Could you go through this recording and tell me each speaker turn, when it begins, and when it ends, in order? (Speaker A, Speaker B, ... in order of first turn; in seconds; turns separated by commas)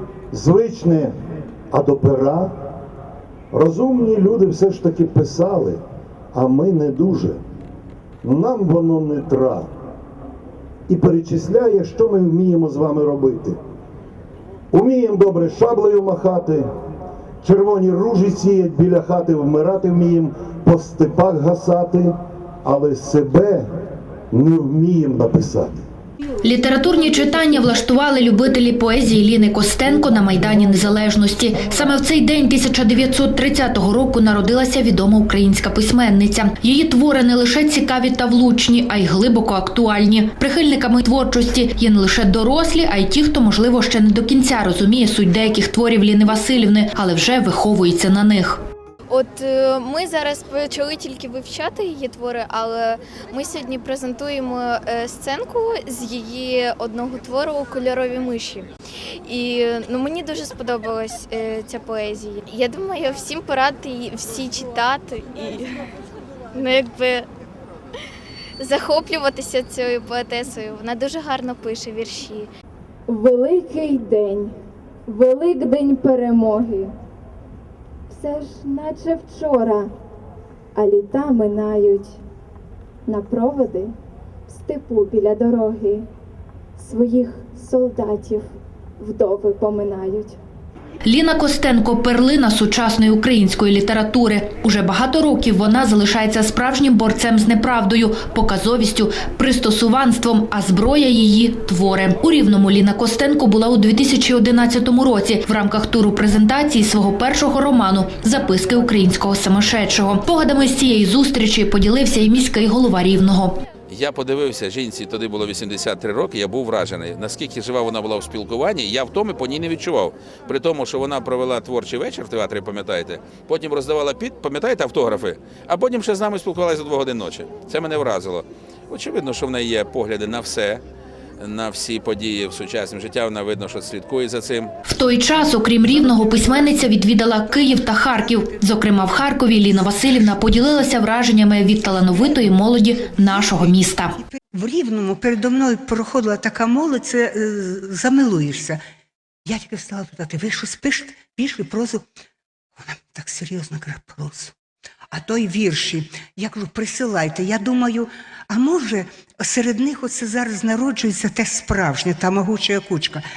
Speaker A: 0.3-1.1, Speaker A: 1.7-2.5, Speaker A: 3.5-5.8, Speaker A: 6.3-7.4, Speaker A: 8.2-9.7, Speaker A: 10.9-13.6, Speaker A: 14.7-16.7, Speaker A: 17.4-22.1, Speaker A: 22.6-23.7, Speaker A: 24.3-25.8, Speaker B: 26.4-48.6, Speaker C: 49.1-58.7, Speaker C: 59.3-65.8, Speaker C: 66.5-67.3, Speaker C: 68.6-72.5, Speaker D: 73.1-74.5, Speaker D: 75.1-76.9, Speaker D: 78.1-79.9, Speaker D: 80.8-82.2, Speaker D: 83.1-83.9, Speaker D: 84.5-86.0, Speaker D: 86.8-88.5, Speaker D: 89.0-90.4, Speaker B: 91.0-113.6, Speaker E: 113.9-130.8, Speaker E: 131.4-134.7, Speaker B: 134.8-144.2, Speaker F: 135.7-140.5, Speaker F: 141.8-142.4, Speaker F: 143.0-148.8, Speaker F: 149.5-152.1, Speaker F: 152.8-154.6, Speaker F: 155.1-163.2